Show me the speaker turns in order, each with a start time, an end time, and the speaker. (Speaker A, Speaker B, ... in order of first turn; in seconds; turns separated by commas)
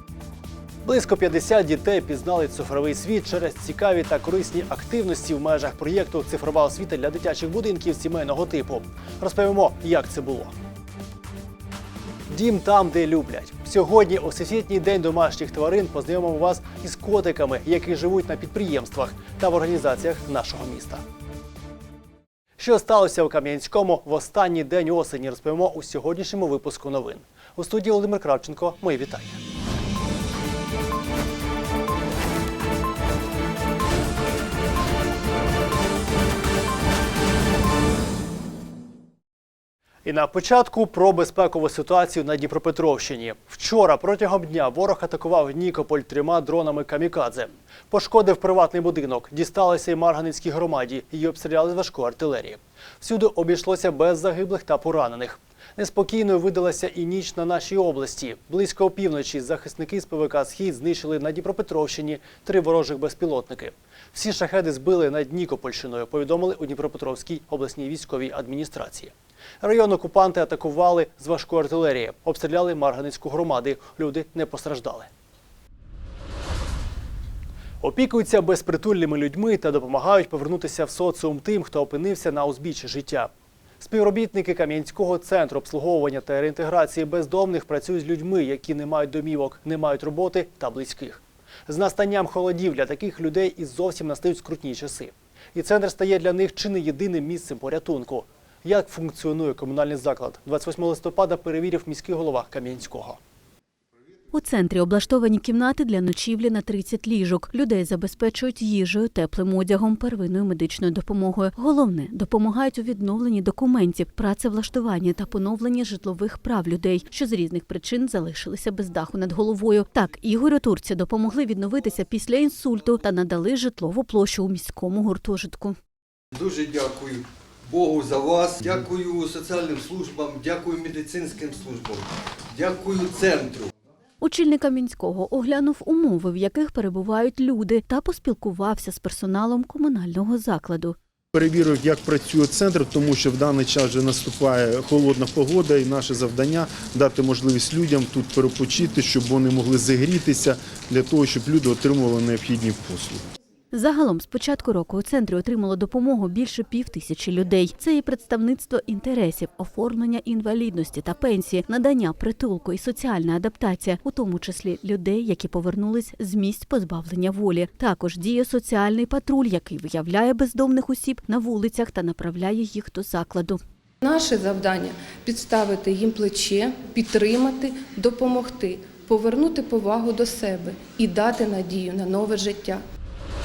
Speaker A: 0.8-10.5, Speaker A: 12.3-21.0, Speaker A: 22.6-29.4, Speaker A: 40.0-75.1, Speaker A: 77.8-83.3, Speaker A: 83.8-103.2, Speaker B: 104.3-125.8, Speaker C: 126.4-126.8, Speaker D: 127.7-132.0, Speaker C: 128.6-129.1, Speaker C: 130.0-131.9, Speaker C: 132.6-133.6, Speaker B: 134.2-141.0, Speaker C: 141.3-153.2, Speaker B: 153.7-173.6, Speaker E: 174.0-182.8